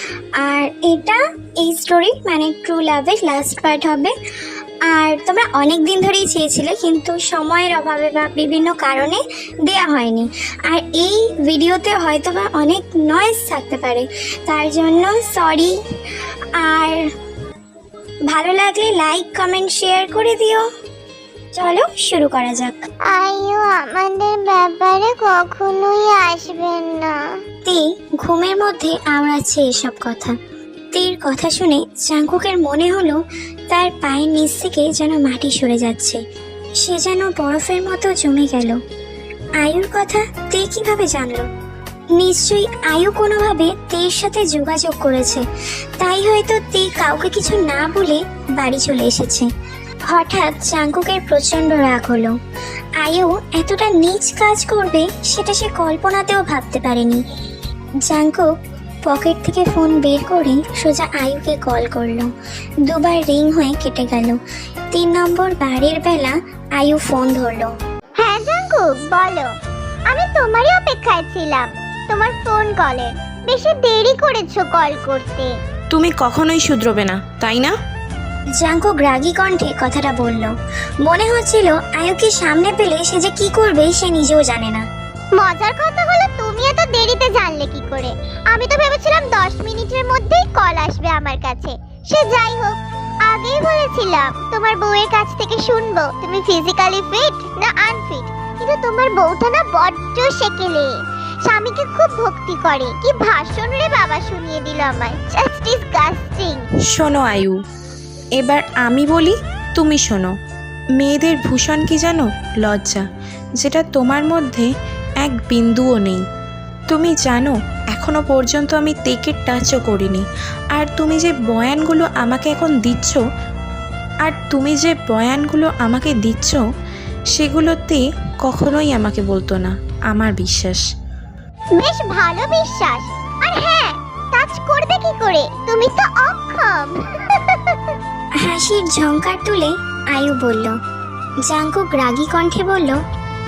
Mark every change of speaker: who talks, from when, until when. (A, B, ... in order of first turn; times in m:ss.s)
0:00.4-0:04.1 A
0:04.9-0:15.8 A
0:16.6-0:17.1 A
0:18.3-0:20.7 A
0:21.6-0:22.8 A
0:23.1-0:27.4 B
0:27.6-0:30.4 A
0:30.9-0:36.2 A
0:36.8-0:38.8 A
0:39.6-0:41.5 A
0:42.2-0:45.4 A
0:46.0-0:49.5 A
0:50.1-0:52.4 A
0:53.0-0:57.2 A
0:58.1-0:58.5 A
0:59.1-1:02.3 A
1:02.9-1:04.4 A
1:04.9-1:07.7 A
1:08.2-1:09.5 B
1:10.1-1:15.6 B
1:15.9-1:17.8 C
1:18.6-1:20.5 A
1:21.0-1:24.9 A
1:25.4-1:46.6 B
1:46.9-1:47.6 C
1:48.4-1:50.3 C
1:51.0-1:53.0 C
1:53.6-1:54.7 C
1:55.2-1:56.2 C
1:56.9-2:03.2 C
2:04.3-2:06.6 C
2:07.3-2:10.8 C
2:11.8-2:18.0 B
2:18.4-2:20.8 A
2:21.5-2:23.0 A